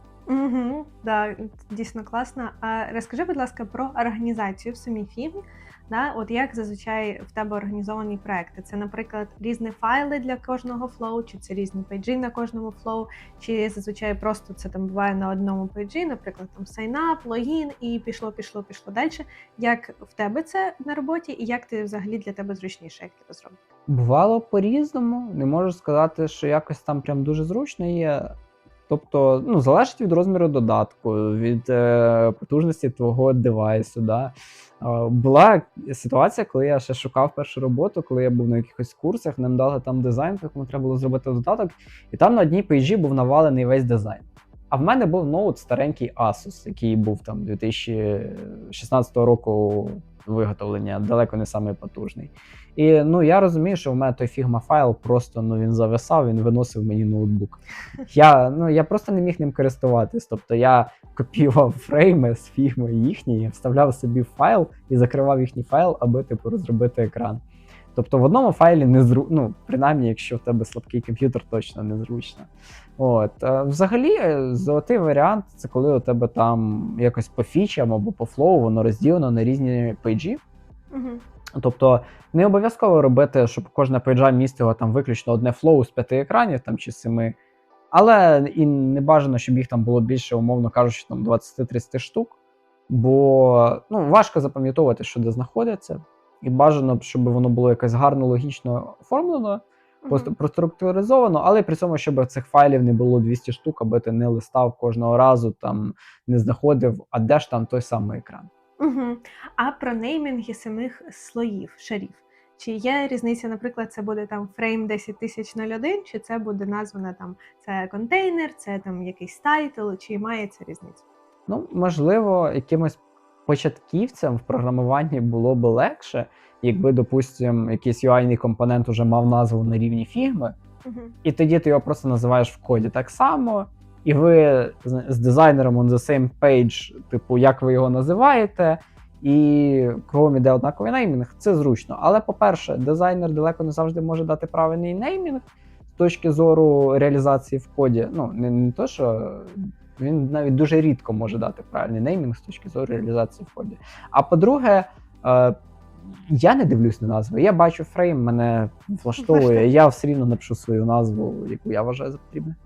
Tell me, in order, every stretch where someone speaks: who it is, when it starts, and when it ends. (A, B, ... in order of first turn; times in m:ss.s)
0:00.3-0:23.6 A
0:23.9-0:28.3 B
0:28.9-1:07.4 B
1:07.9-1:20.4 B
1:20.9-1:21.2 A
1:21.5-1:27.4 B
1:27.9-1:32.4 B
1:32.9-1:48.5 B
1:40.0-1:40.3 A
1:48.8-2:01.0 A
2:01.5-2:10.5 B
2:10.8-2:11.1 A
2:11.2-2:42.6 B
2:39.2-2:39.7 A